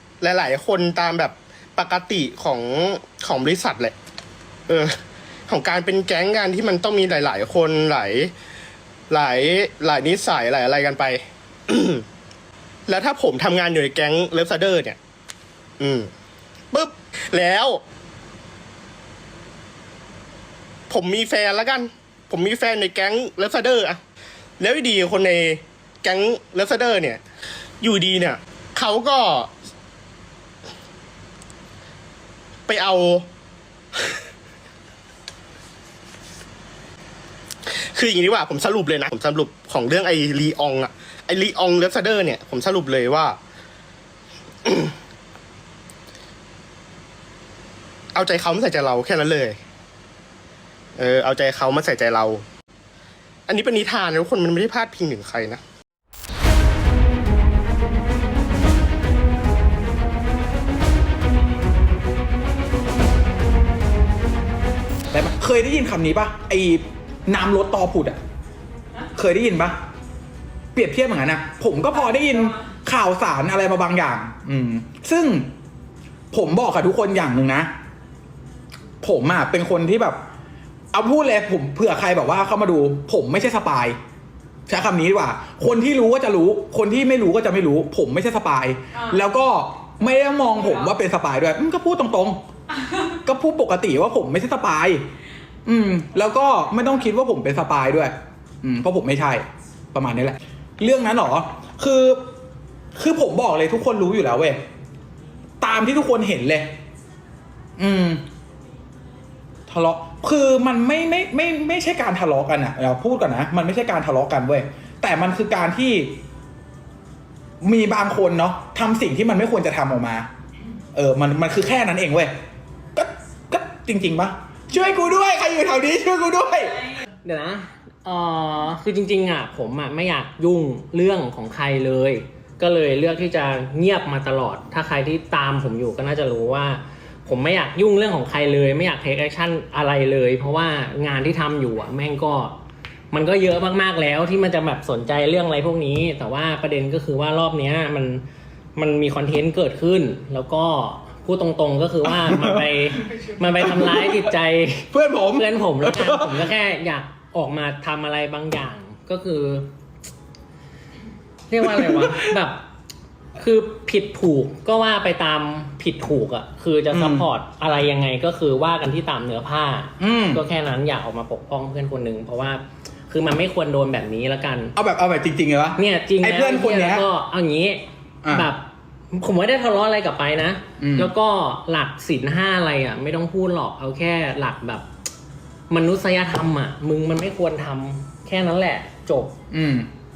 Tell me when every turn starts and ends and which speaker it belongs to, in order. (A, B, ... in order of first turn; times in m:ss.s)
0:00.2-0:03.9 A
0:05.5-0:08.3 A
0:09.1-0:12.0 A
0:12.9-0:15.0 A
0:15.8-0:16.1 A
0:16.7-0:17.8 A
0:20.9-0:24.0 A
0:24.6-0:27.2 A
0:27.8-0:29.5 A
0:32.7-0:33.3 A
0:37.9-0:43.4 A
0:44.6-0:44.9 A
0:48.1-0:49.6 A
0:51.0-0:52.4 A
0:53.5-0:55.6 A
1:05.1-1:08.2 B
1:09.1-1:09.8 B
1:10.7-1:15.5 B
1:16.3-1:17.7 B
1:19.0-1:20.2 B
1:20.9-1:24.0 B
1:24.7-1:32.4 B
1:33.2-1:35.0 B
1:35.6-1:42.2 B
1:42.9-1:44.6 B
1:45.6-1:46.7 B
1:47.8-1:48.2 B
1:49.7-1:56.2 B
1:57.6-2:00.3 B
2:00.9-2:02.3 B
2:02.9-2:07.0 B
2:07.2-2:22.6 C
2:23.1-2:28.2 C
2:28.8-2:39.7 C
2:32.2-2:34.3 B
2:34.9-2:36.5 B
2:41.5-2:42.6 C
2:41.7-2:42.3 B
2:43.4-2:54.7 C
2:46.9-2:47.3 B
2:50.0-2:50.4 B
2:54.8-2:57.0 B
2:55.8-3:04.9 C
2:58.2-2:58.5 B
3:00.8-3:01.1 B
3:05.7-3:09.4 C
3:09.5-3:09.9 B